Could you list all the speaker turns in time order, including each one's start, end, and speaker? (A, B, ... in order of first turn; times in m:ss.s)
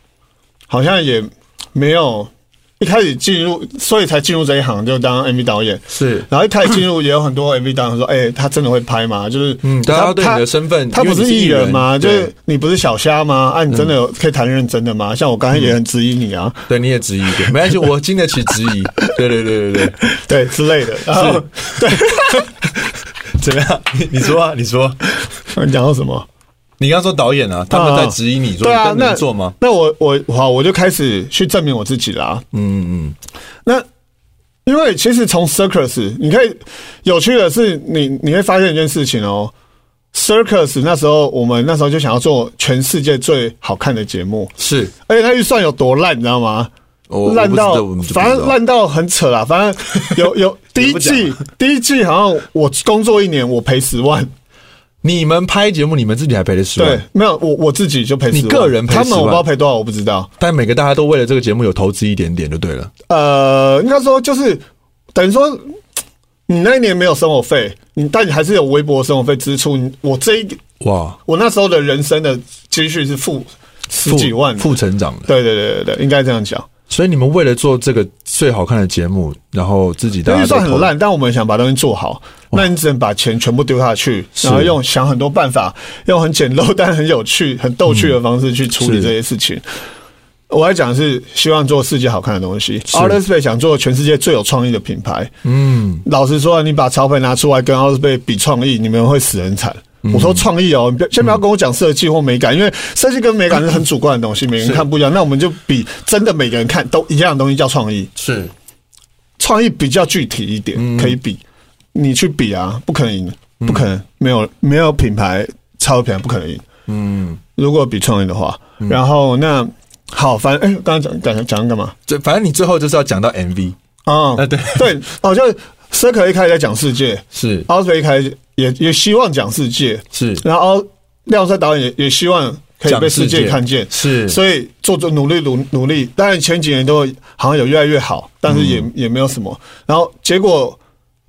0:00.7-0:16.6 A
0:05.9-0:06.3 B
0:09.6-0:12.3 B
0:16.7-0:20.1 B
0:20.0-0:22.5 A
0:21.1-0:25.2 B
0:25.5-0:26.3 A
0:26.8-0:29.5 B
0:27.7-0:32.4 A
0:32.5-0:33.2 B
0:34.6-0:39.5 A
0:40.1-0:44.5 A
0:44.6-0:44.9 B
0:45.0-0:46.7 A
0:47.1-0:48.6 B
0:47.2-0:54.3 A
0:50.8-0:51.4 B
0:55.0-0:57.0 B
0:56.8-1:00.3 A
0:58.3-0:59.4 B
1:00.4-1:02.9 B
1:03.1-1:05.8 A
1:06.5-1:10.6 A
1:10.8-1:11.2 B
1:11.2-1:14.7 A
1:14.0-1:15.3 B
1:15.3-1:16.7 A
1:16.9-1:20.9 B
1:20.2-1:29.6 A
1:24.4-1:24.7 B
1:27.9-1:28.1 B
1:28.8-1:29.1 B
1:30.5-1:35.3 A
1:32.9-1:33.2 B
1:35.4-1:36.0 B
1:36.0-1:48.1 A
1:40.0-1:40.5 B
1:48.2-1:48.5 B
1:49.4-1:51.4 A
1:50.8-1:51.2 B
1:51.9-1:56.6 A
1:53.6-1:53.9 B
1:56.9-1:57.4 B
1:57.6-2:01.9 A
2:02.1-2:03.8 B
2:04.0-2:20.8 A
2:04.4-2:05.0 B
2:07.3-2:07.7 B
2:10.1-2:10.4 B
2:12.8-2:14.4 B
2:18.5-2:18.9 B